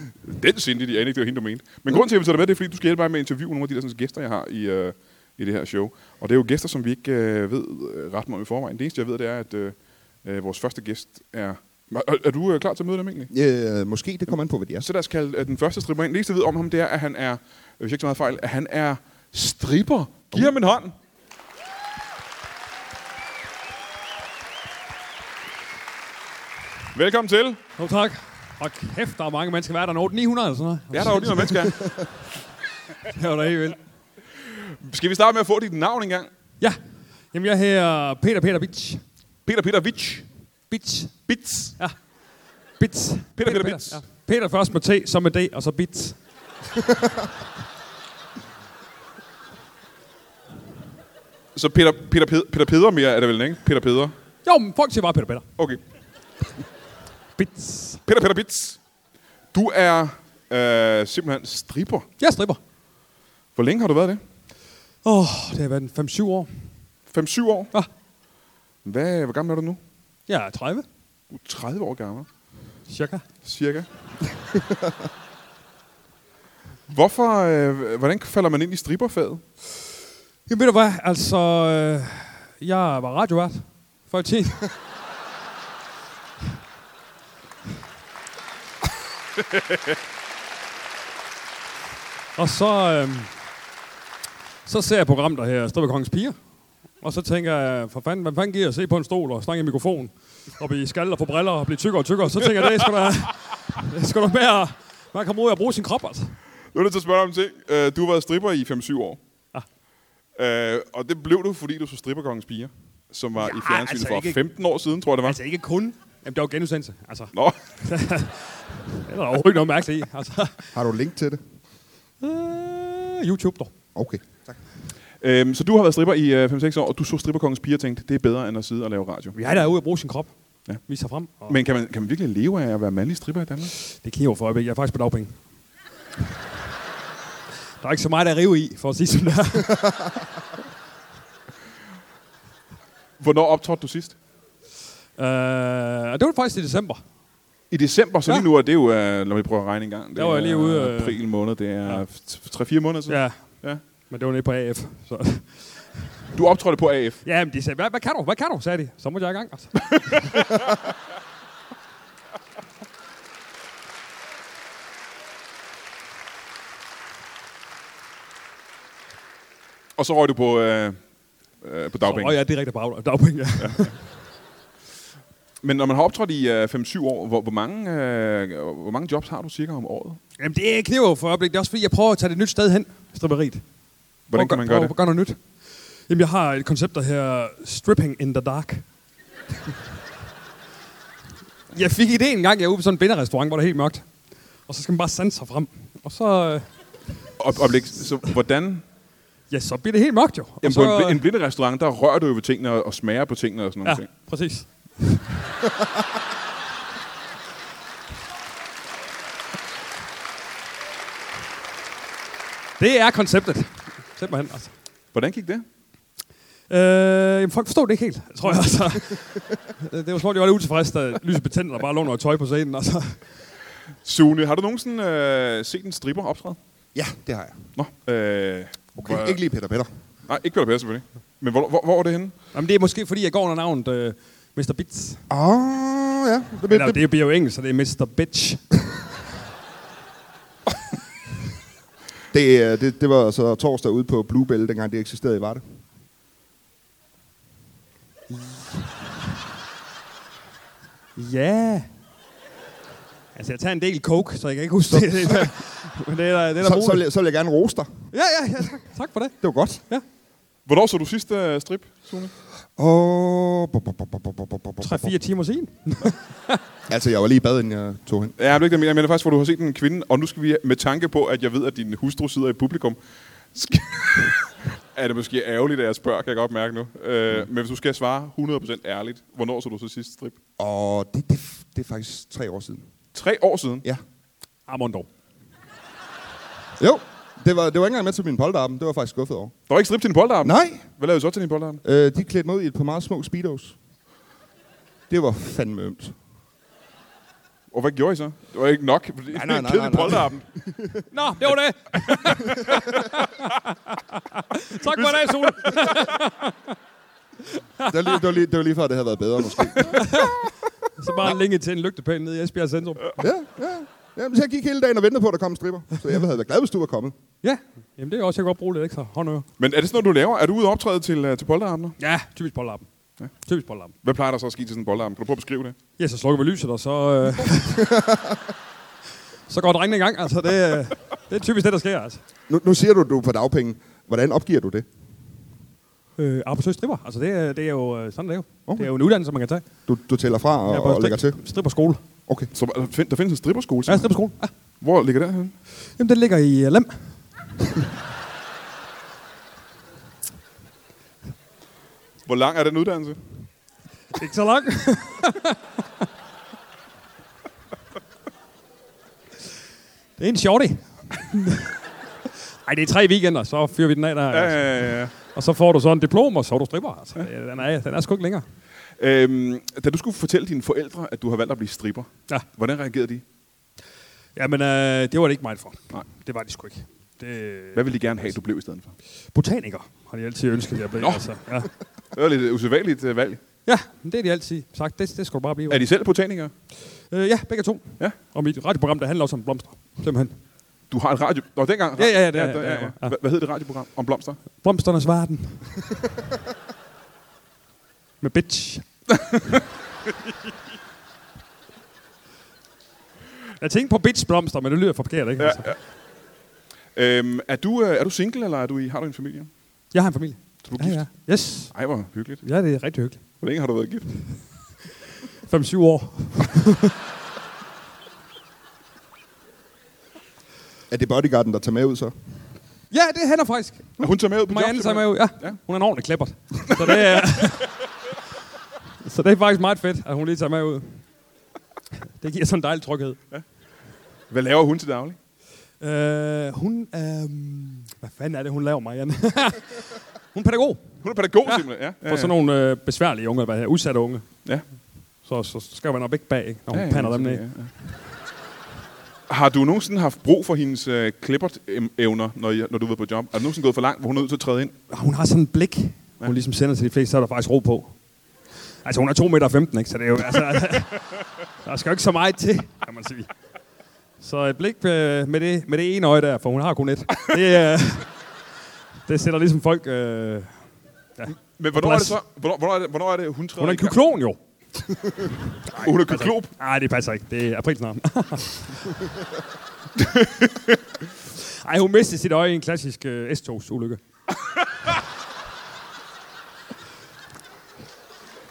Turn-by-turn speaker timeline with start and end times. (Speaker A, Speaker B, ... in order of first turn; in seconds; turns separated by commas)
Speaker A: 0.2-13.3, Speaker B: 13.3-14.9, Speaker A: 14.8-20.9, Speaker A: 26.9-27.6, Speaker C: 27.8-31.9, Speaker A: 30.9-32.0, Speaker C: 33.1-33.8, Speaker A: 34.5-36.3, Speaker C: 37.3-39.0, Speaker A: 39.5-40.2, Speaker C: 40.7-41.3, Speaker A: 41.3-41.8, Speaker C: 42.8-46.2, Speaker A: 43.4-44.0, Speaker A: 51.5-54.1, Speaker C: 54.4-55.4, Speaker C: 57.4-58.0, Speaker A: 58.0-58.8, Speaker A: 59.5-62.0, Speaker C: 62.2-62.6, Speaker A: 63.5-64.2, Speaker C: 65.0-66.7, Speaker A: 67.1-67.7, Speaker A: 68.8-69.8, Speaker C: 70.3-70.8, Speaker A: 71.3-72.3, Speaker C: 72.9-73.2, Speaker A: 73.4-73.9, Speaker A: 76.9-79.4, Speaker C: 80.5-84.7, Speaker C: 92.3-93.3, Speaker C: 94.6-96.4, Speaker C: 97.0-106.3, Speaker A: 106.7-109.2, Speaker A: 110.3-115.4, Speaker C: 113.4-114.4, Speaker C: 115.2-120.7, Speaker B: 120.7-121.4, Speaker C: 122.2-123.7, Speaker B: 123.9-124.6, Speaker A: 125.2-129.3, Speaker C: 129.3-130.3, Speaker C: 130.8-131.6, Speaker A: 131.5-133.7, Speaker C: 133.8-135.3, Speaker C: 137.8-140.1, Speaker A: 143.2-144.2, Speaker C: 145.2-147.0, Speaker A: 147.7-153.8, Speaker C: 150.2-151.2, Speaker C: 153.1-153.5, Speaker C: 154.0-156.1, Speaker A: 156.3-157.2, Speaker C: 157.2-160.3, Speaker A: 159.9-160.6, Speaker A: 170.0-171.0, Speaker A: 171.6-172.4, Speaker C: 172.0-174.0, Speaker A: 173.6-173.9, Speaker A: 175.6-180.2, Speaker C: 180.4-183.6, Speaker A: 184.3-184.9, Speaker C: 184.3-185.4, Speaker C: 186.1-188.8, Speaker C: 191.7-194.1, Speaker C: 194.7-196.7, Speaker A: 197.4-198.8, Speaker C: 199.5-201.2, Speaker A: 200.6-204.1, Speaker C: 203.8-205.3, Speaker C: 212.8-214.7, Speaker A: 215.1-215.6, Speaker C: 216.7-223.3, Speaker A: 224.0-226.6, Speaker B: 226.9-227.6, Speaker A: 227.8-229.4, Speaker B: 229.0-229.9, Speaker A: 230.2-232.3, Speaker C: 232.5-235.2, Speaker B: 235.3-237.0, Speaker C: 236.7-238.6, Speaker B: 242.3-245.6, Speaker C: 248.3-248.8, Speaker C: 251.2-251.9, Speaker C: 253.3-257.0, Speaker B: 254.9-255.5, Speaker B: 256.6-258.1, Speaker C: 258.1-259.4, Speaker B: 259.4-259.8, Speaker A: 260.6-262.3, Speaker B: 262.8-265.1, Speaker C: 264.8-266.6, Speaker B: 266.9-268.3, Speaker A: 268.4-273.0, Speaker A: 273.5-280.4, Speaker B: 280.6-282.9, Speaker A: 283.1-283.8, Speaker C: 284.7-285.1, Speaker B: 286.8-289.5, Speaker A: 289.7-291.8, Speaker B: 290.4-290.8, Speaker B: 291.8-293.8, Speaker B: 295.1-296.1, Speaker A: 297.7-300.4, Speaker B: 299.3-301.0, Speaker C: 301.1-306.7, Speaker A: 304.9-305.9, Speaker C: 307.5-308.2, Speaker B: 307.9-310.2, Speaker C: 309.8-313.2, Speaker B: 313.2-317.1, Speaker C: 317.4-319.5, Speaker A: 319.6-322.0, Speaker C: 322.0-322.9, Speaker C: 323.4-323.9, Speaker A: 324.0-325.8, Speaker C: 326.0-327.9, Speaker B: 327.8-328.4, Speaker C: 329.5-332.2, Speaker B: 332.5-334.9, Speaker C: 336.2-339.6, Speaker B: 339.9-341.4, Speaker C: 340.7-342.0, Speaker A: 342.5-344.1, Speaker C: 343.9-344.5, Speaker A: 344.8-345.5, Speaker C: 346.0-347.2, Speaker A: 352.2-353.2, Speaker C: 354.1-355.6, Speaker C: 360.2-361.7, Speaker C: 362.6-368.4, Speaker A: 364.3-365.1, Speaker A: 369.0-373.2, Speaker C: 374.4-378.3, Speaker A: 377.7-378.9, Speaker C: 379.3-381.7, Speaker A: 381.0-381.2, Speaker A: 382.1-383.4, Speaker C: 383.6-385.9, Speaker A: 385.7-386.5, Speaker C: 386.9-390.4, Speaker A: 390.9-394.4, Speaker C: 392.0-393.2, Speaker C: 394.6-395.8, Speaker C: 398.2-398.9, Speaker A: 399.2-399.6, Speaker C: 403.6-405.7, Speaker A: 405.4-405.8, Speaker A: 406.9-409.5, Speaker C: 409.9-411.7, Speaker A: 410.6-412.4, Speaker C: 412.4-413.2, Speaker A: 413.4-414.1, Speaker C: 415.5-416.9, Speaker B: 420.9-422.1, Speaker C: 422.9-427.7, Speaker A: 424.0-425.6, Speaker C: 429.0-431.0, Speaker C: 432.2-433.2, Speaker A: 434.3-435.2, Speaker C: 435.8-440.9, Speaker A: 441.0-442.3, Speaker C: 441.4-444.3, Speaker C: 445.2-447.4, Speaker A: 446.7-447.7, Speaker A: 449.3-454.7, Speaker C: 454.9-457.9, Speaker C: 458.8-463.3, Speaker C: 464.2-468.1, Speaker C: 469.1-470.6, Speaker C: 471.2-472.2, Speaker A: 471.6-474.0, Speaker C: 473.6-474.4, Speaker C: 475.1-479.0, Speaker A: 475.7-476.5, Speaker A: 479.9-480.8, Speaker C: 481.4-484.0